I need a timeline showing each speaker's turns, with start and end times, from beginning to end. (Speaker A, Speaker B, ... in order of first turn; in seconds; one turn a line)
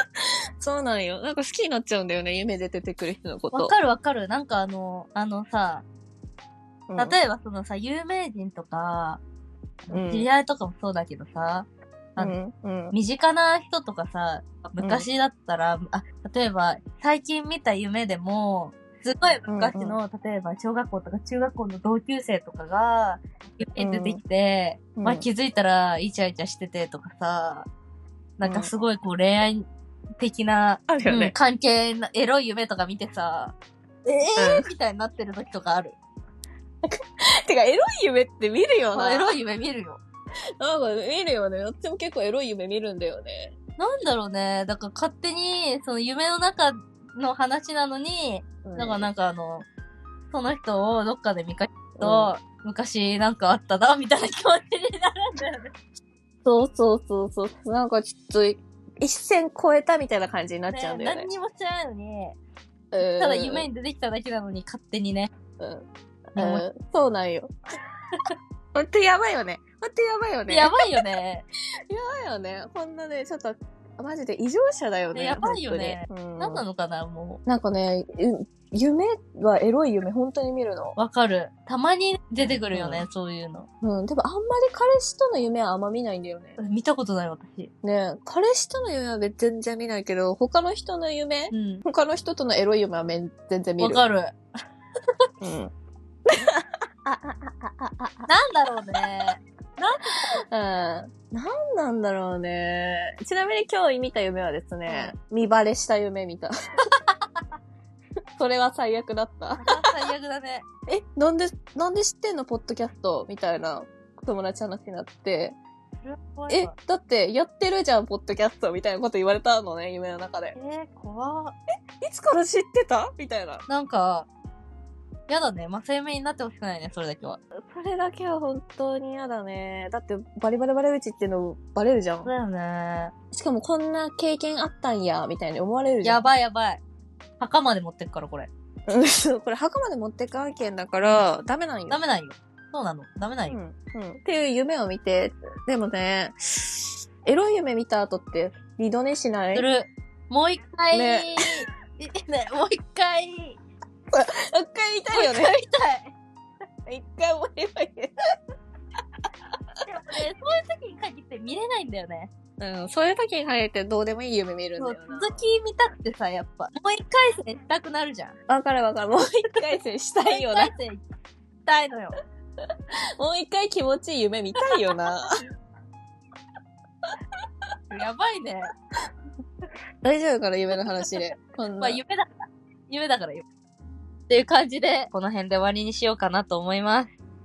Speaker A: 0.2-3.7
Speaker B: 3.5-5.8
Speaker A: 6.9-7.2
Speaker B: 7.0-9.2
Speaker B: 9.8-12.3
Speaker A: 9.9-10.3
Speaker A: 12.2-12.9
Speaker B: 12.9-27.7
Speaker A: 14.8-15.1
Speaker A: 19.5-20.0
Speaker A: 23.8-24.2
Speaker A: 24.9-25.2
Speaker B: 28.4-29.7
Speaker A: 28.4-28.7
Speaker B: 30.2-36.0
Speaker A: 30.9-31.3
Speaker A: 34.4-34.7
Speaker A: 36.8-39.3
Speaker B: 38.9-40.0
Speaker A: 40.6-43.5
Speaker B: 43.8-49.7
Speaker A: 48.6-49.1
Speaker B: 50.3-55.7
Speaker A: 52.0-52.3
Speaker A: 56.4-61.3
Speaker B: 60.7-62.4
Speaker A: 62.9-63.7
Speaker B: 63.0-65.3
Speaker A: 65.6-67.5
Speaker B: 66.3-66.6
Speaker A: 68.7-70.8
Speaker B: 70.5-71.4
Speaker A: 71.9-76.6
Speaker B: 75.1-77.4
Speaker A: 77.5-81.0
Speaker B: 81.0-83.7
Speaker A: 82.4-83.0
Speaker A: 83.8-86.6
Speaker B: 86.6-87.7
Speaker A: 87.8-94.0
Speaker B: 91.5-91.8
Speaker B: 93.8-94.4
Speaker A: 95.4-95.7
Speaker A: 96.3-98.3
Speaker B: 98.3-100.4
Speaker A: 100.0-106.9
Speaker B: 104.8-105.1
Speaker A: 108.3-109.8
Speaker B: 109.6-110.6
Speaker A: 110.9-115.6
Speaker B: 116.0-116.7
Speaker A: 116.5-120.5
Speaker B: 120.5-121.5
Speaker A: 122.0-123.6
Speaker B: 123.7-124.3
Speaker B: 125.3-127.4
Speaker A: 127.5-132.3
Speaker B: 132.2-133.1
Speaker A: 133.3-136.2
Speaker B: 136.0-136.8
Speaker B: 137.4-138.5
Speaker A: 138.9-142.0
Speaker B: 141.9-143.6
Speaker A: 143.5-149.6
Speaker B: 149.5-153.6
Speaker A: 150.9-151.6
Speaker A: 154.1-155.5
Speaker B: 155.1-156.1
Speaker A: 156.8-158.1
Speaker B: 159.8-162.3
Speaker A: 162.6-165.4
Speaker B: 164.8-168.4
Speaker A: 168.5-170.7
Speaker B: 170.2-171.0
Speaker B: 171.7-172.2
Speaker A: 173.2-175.3
Speaker B: 177.9-178.7
Speaker A: 180.0-182.0
Speaker B: 181.8-183.4
Speaker B: 184.3-187.1